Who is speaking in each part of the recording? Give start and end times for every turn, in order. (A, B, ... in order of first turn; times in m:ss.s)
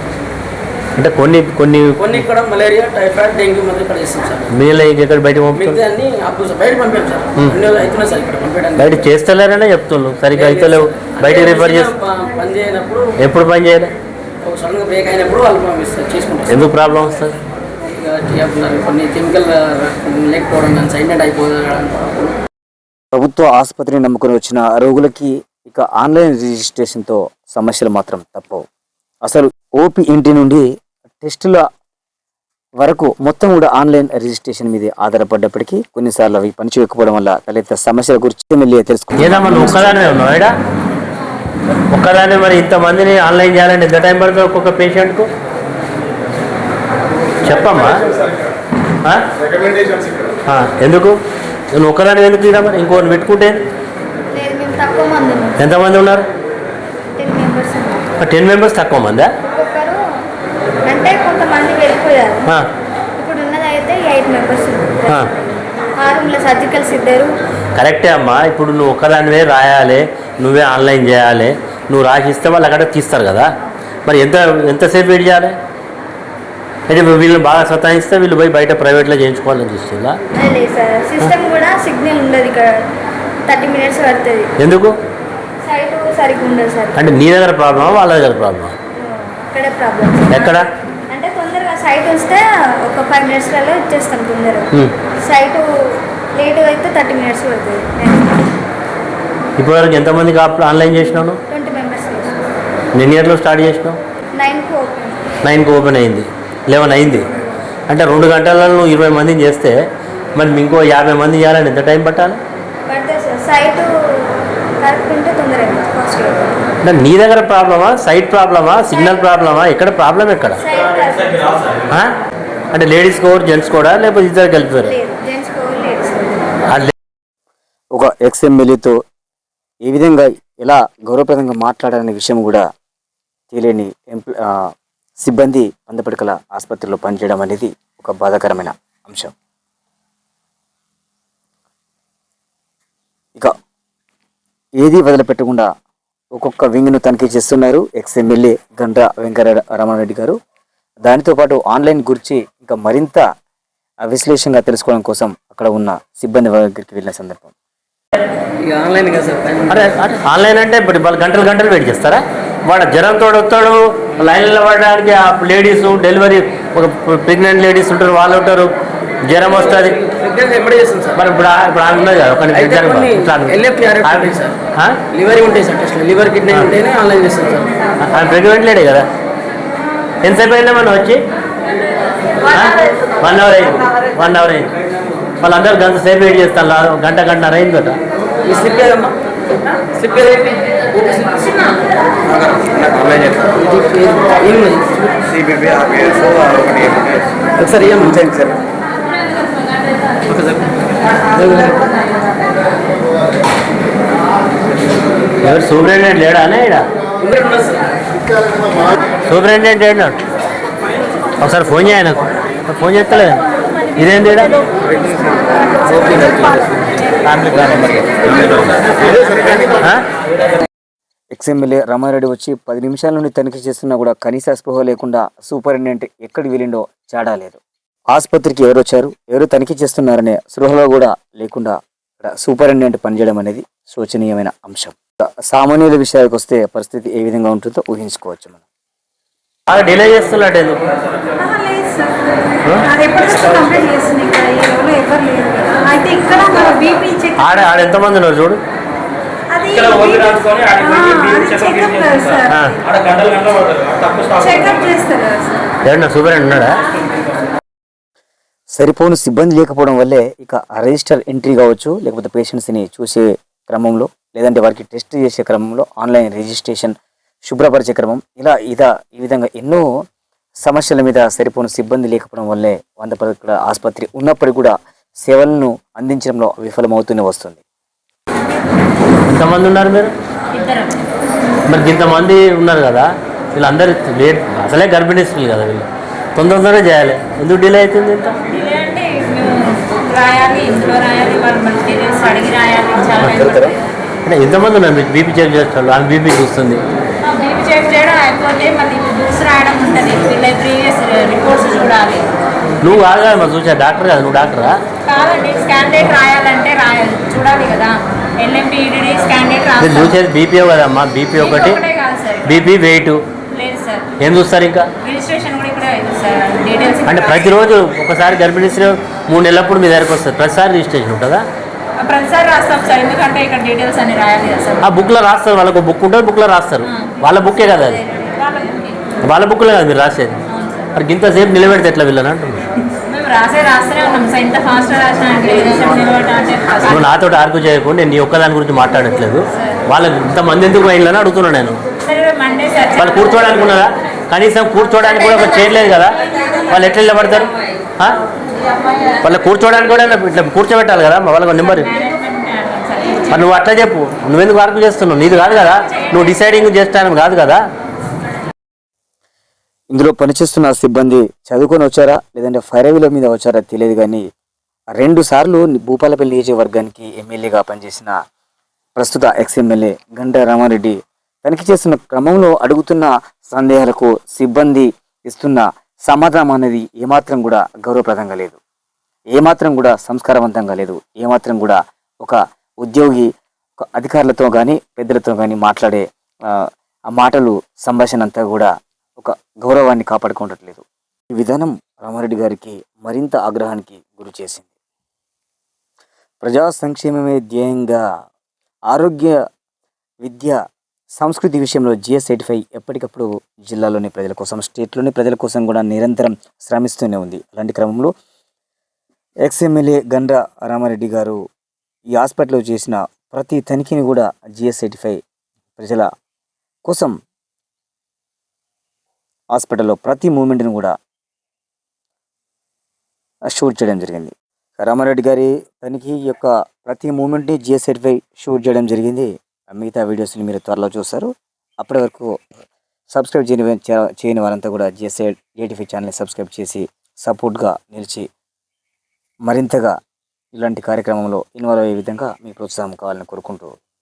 0:01.0-0:02.2 A
0:02.0-0:04.5 B
0:04.5-0:05.8 A
0:05.5-0:09.1 B
0:08.8-0:11.9 A
0:10.3-0:13.1 B
0:13.2-0:13.9 A
0:14.4-0:16.8 B
0:16.5-0:17.3 A
0:17.9-0:22.3 B
0:23.1-0:28.6 C
0:29.2-0:30.7 C
0:31.2-0:31.6 C
0:32.8-0:40.0 C
0:39.2-0:40.5 A
0:41.9-0:45.3 A
0:47.4-0:47.9 A
0:50.5-0:51.2 A
0:51.7-0:53.6 A
0:54.3-0:55.6 D
0:55.6-0:56.2 A
0:57.2-0:58.1 D
0:58.2-0:59.3 A
0:59.4-1:00.0 D
1:00.9-1:02.5 D
1:03.2-1:05.4 D
1:06.0-1:07.3 D
1:07.8-1:13.5 A
1:14.0-1:15.6 A
1:16.9-1:20.2 A
1:20.3-1:22.8 D
1:23.5-1:24.5 D
1:24.6-1:25.0 A
1:25.6-1:27.0 D
1:26.9-1:28.7 A
1:29.0-1:34.7 D
1:30.3-1:30.6 A
1:35.2-1:38.4 D
1:39.6-1:41.4 A
1:41.5-1:42.4 D
1:42.9-1:44.0 A
1:44.3-1:45.3 D
1:45.4-1:47.2 A
1:47.9-1:49.7 A
1:50.4-1:52.4 A
1:52.8-1:56.5 D
1:56.8-2:00.6 A
1:58.9-1:59.2 D
2:00.6-2:01.8 D
2:02.7-2:04.9 A
2:04.8-2:06.6 D
2:07.9-2:09.0 C
2:09.8-2:12.6 C
2:13.5-2:14.5 C
2:15.2-2:19.3 C
2:24.8-2:25.7 C
2:26.3-2:30.4 C
2:31.0-2:33.2 C
2:34.0-2:37.5 C
2:38.6-2:39.9 B
2:39.7-2:48.7 A
2:49.3-2:50.0 A
2:49.5-2:51.2 B
2:51.2-2:55.0 A
2:52.5-2:57.8 B
2:58.0-2:59.1 A
3:00.2-3:01.2 A
3:02.5-3:04.7 A
3:05.4-3:08.0 A
3:08.4-3:09.1 B
3:09.9-3:11.8 B
3:12.3-3:18.5 B
3:20.2-3:20.6 B
3:21.2-3:21.9 B
3:25.4-3:26.8 A
3:27.2-3:27.9 B
3:29.3-3:30.1 A
3:31.4-3:33.4 A
3:34.0-3:34.7 A
3:37.2-3:40.0 A
3:41.3-3:47.6 C
3:48.1-3:58.6 C
3:59.7-4:00.8 A
4:01.4-4:07.6 E
4:07.4-4:08.6 A
4:09.5-4:15.7 E
4:12.5-4:12.7 A
4:15.8-4:16.8 A
4:18.8-4:27.0 C
4:27.5-4:29.9 C
4:30.6-4:37.6 C
4:39.3-4:40.1 A
4:40.5-4:41.0 F
4:41.7-4:48.4 A
4:48.5-4:54.2 F
4:53.2-4:53.6 A
4:54.2-4:56.8 A
4:57.2-5:02.3 F
5:02.8-5:04.8 A
5:05.0-5:10.2 F
5:09.8-5:11.8 A
5:11.4-5:12.7 F
5:12.4-5:13.2 A
5:13.5-5:14.1 F
5:14.2-5:14.9 A
5:15.0-5:17.6 F
5:17.0-5:21.4 A
5:22.0-5:24.9 F
5:24.8-5:28.0 A
5:26.8-5:29.0 F
5:29.2-5:30.4 A
5:30.5-5:30.9 F
5:30.9-5:32.6 A
5:33.1-5:37.0 F
5:36.8-5:41.8 A
5:39.6-5:39.8 F
5:42.0-5:43.3 F
5:43.0-5:46.2 A
5:46.7-5:48.2 A
5:49.2-5:52.0 A
5:51.6-5:53.4 F
5:53.3-5:57.6 A
5:55.9-5:56.6 F
5:59.9-6:04.2 C
6:05.0-6:08.1 C
6:09.0-6:18.6 C
6:19.3-6:23.3 C
6:23.8-6:26.0 C
6:27.1-6:30.8 C
6:31.4-6:34.7 C
6:36.4-6:38.0 C
6:38.9-6:39.4 C
6:40.2-6:40.6 C
6:41.2-6:48.1 C
6:49.4-6:51.4 C
6:52.1-6:55.2 C
6:55.8-6:56.1 C
6:56.8-6:57.1 C
6:59.5-7:00.9 C
7:03.5-7:12.3 C
7:13.1-7:18.2 C
7:19.5-7:19.9 C
7:20.5-7:23.7 C